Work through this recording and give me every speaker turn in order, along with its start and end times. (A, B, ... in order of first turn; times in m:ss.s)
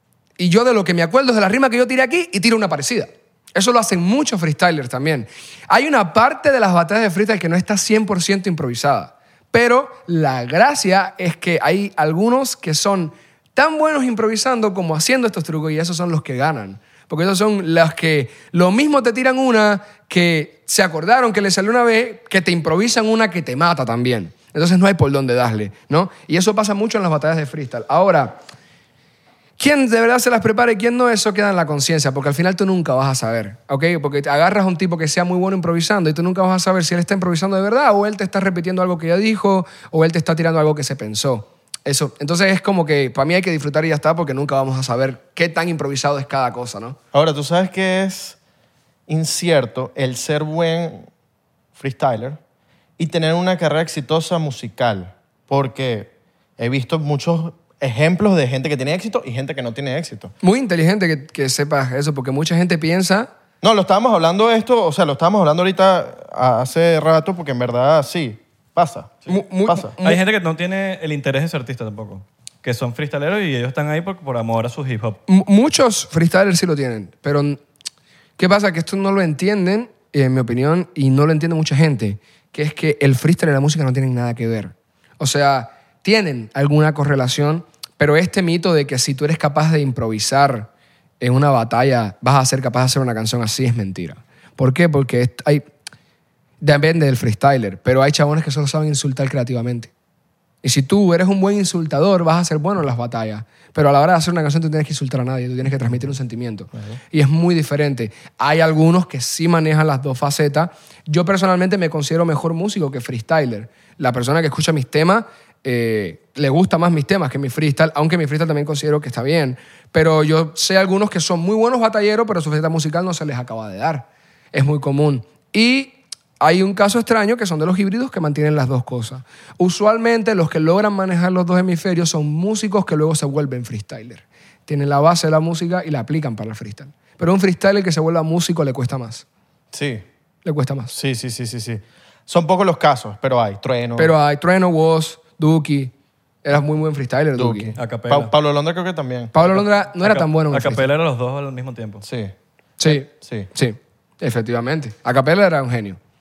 0:00.4-0:28.4 A
0:29.6-0:47.0 A
0:47.1-0:48.4 B
0:49.1-0:51.1 B
0:51.8-0:52.4 B
0:53.0-1:00.3 B
1:00.4-1:03.3 A
1:03.6-1:10.0 B
1:09.3-1:10.2 A
1:10.0-1:15.2 C
1:15.3-1:17.6 A
1:18.4-1:30.7 A
1:31.2-1:35.7 A
1:36.6-1:39.9 A
1:40.6-2:19.2 A
2:19.7-2:20.0 B
2:20.4-2:20.9 A
2:20.9-2:24.1 B
2:24.0-2:25.9 A
2:26.4-2:27.7 A
2:27.4-2:29.3 B
2:27.8-2:28.3 C
2:29.3-2:30.9 A
2:29.5-2:32.0 C
2:32.0-2:33.5 B
2:32.8-2:36.0 A